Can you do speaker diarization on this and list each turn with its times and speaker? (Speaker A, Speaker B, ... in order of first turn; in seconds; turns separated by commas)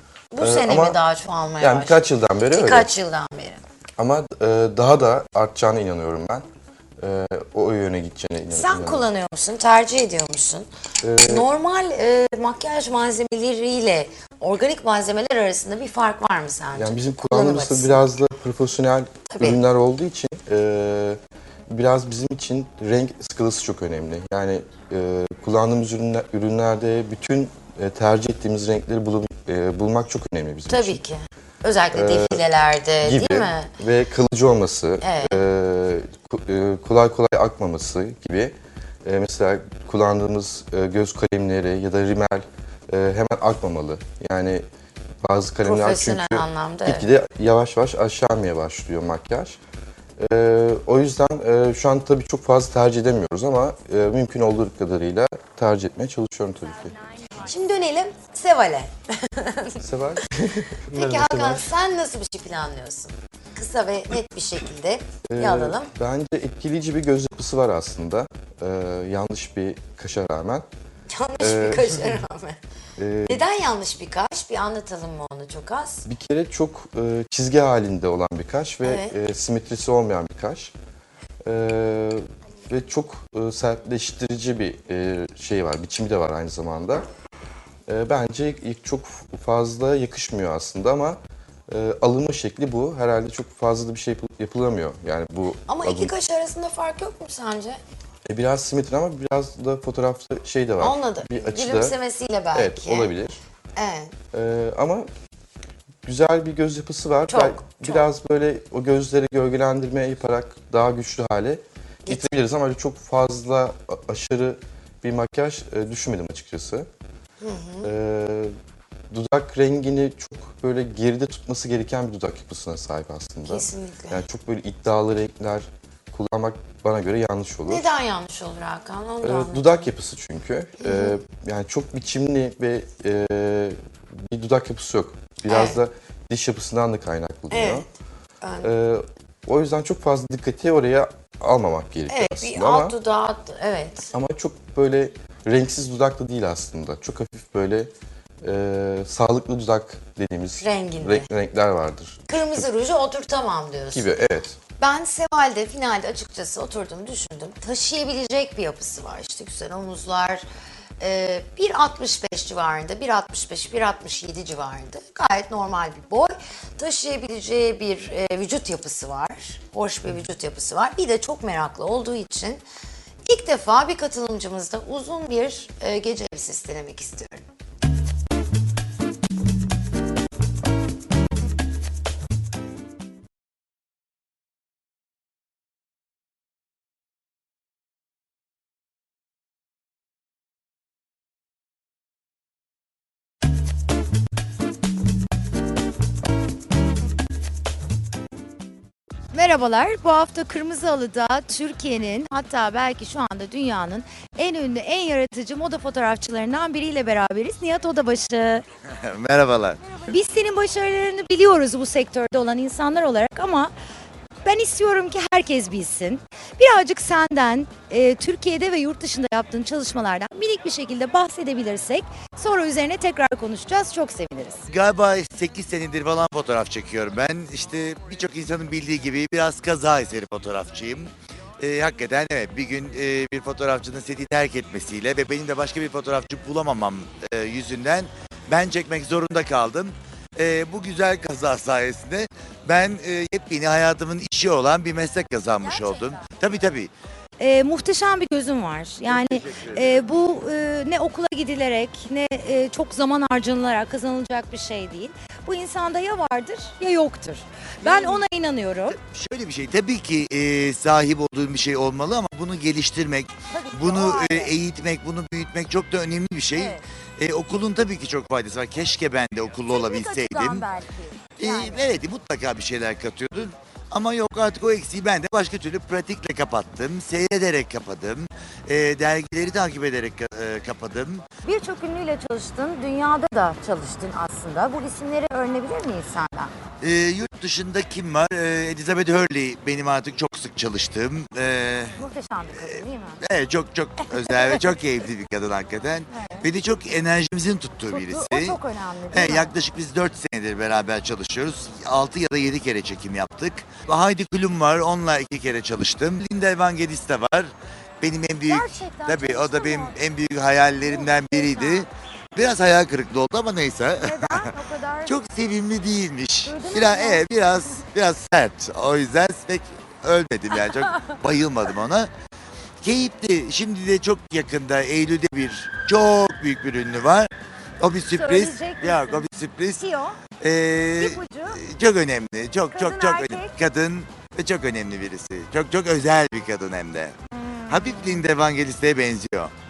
Speaker A: 0.3-3.6, Speaker B: 0.4-1.0, Speaker B: 1.6-2.9, Speaker B: 4.0-6.4, Speaker B: 7.0-9.1, Speaker A: 8.5-10.7, Speaker B: 11.0-11.5, Speaker A: 11.2-18.0, Speaker B: 16.7-31.0, Speaker A: 19.3-19.6, Speaker A: 30.7-33.7, Speaker B: 31.9-32.4, Speaker B: 33.0-38.5, Speaker A: 35.0-35.4, Speaker B: 39.0-44.6, Speaker B: 45.2-49.6, Speaker A: 45.6-47.1, Speaker B: 50.2-57.0, Speaker A: 57.4-59.8, Speaker B: 59.8-61.7, Speaker A: 60.9-65.9, Speaker B: 65.3-70.7, Speaker A: 71.1-72.6, Speaker B: 71.4-72.2, Speaker B: 73.0-73.5, Speaker A: 73.3-76.1, Speaker B: 76.0-80.7, Speaker A: 78.8-79.1, Speaker B: 81.4-87.1, Speaker B: 87.9-96.1, Speaker A: 95.7-97.8, Speaker B: 98.2-102.0, Speaker A: 100.8-103.1, Speaker B: 102.5-103.4, Speaker A: 103.8-104.1, Speaker B: 104.3-105.1, Speaker B: 106.0-116.9, Speaker A: 107.3-108.1, Speaker A: 112.0-112.3, Speaker A: 117.4-117.9, Speaker B: 117.8-118.5, Speaker B: 119.1-127.8, Speaker A: 123.4-124.2, Speaker A: 127.7-129.8, Speaker B: 129.2-137.9, Speaker A: 130.8-131.2, Speaker A: 135.4-135.8, Speaker A: 137.5-137.8, Speaker A: 138.4-138.7, Speaker B: 138.6-142.9, Speaker A: 142.1-144.1, Speaker B: 144.1-147.9, Speaker B: 148.4-152.7, Speaker A: 150.6-151.3, Speaker A: 152.3-160.4, Speaker B: 153.9-154.6, Speaker A: 161.0-172.6, Speaker A: 173.2-177.4, Speaker C: 199.3-208.6, Speaker D: 208.9-210.0, Speaker C: 210.0-213.7, Speaker C: 214.4-224.6, Speaker D: 224.7-246.9, Speaker C: 245.6-246.3, Speaker C: 247.4-259.0, Speaker D: 249.1-250.1, Speaker D: 257.8-258.2, Speaker D: 258.9-270.7, Speaker C: 263.5-264.6, Speaker C: 266.5-266.8, Speaker C: 269.7-271.9, Speaker D: 271.4-281.2, Speaker C: 281.4-286.5, Speaker D: 286.8-298.6, Speaker C: 292.0-293.2, Speaker C: 294.1-294.7, Speaker C: 296.1-296.5, Speaker C: 297.9-299.5, Speaker D: 299.1-314.5, Speaker C: 308.4-309.9, Speaker C: 310.8-311.9, Speaker C: 314.0-315.3, Speaker D: 315.0-322.1, Speaker C: 316.4-317.8, Speaker C: 320.6-321.2, Speaker D: 322.8-329.8, Speaker C: 328.1-330.2, Speaker D: 330.4-337.2, Speaker C: 331.0-331.6, Speaker C: 332.7-333.5, Speaker C: 337.3-338.3, Speaker D: 337.7-339.5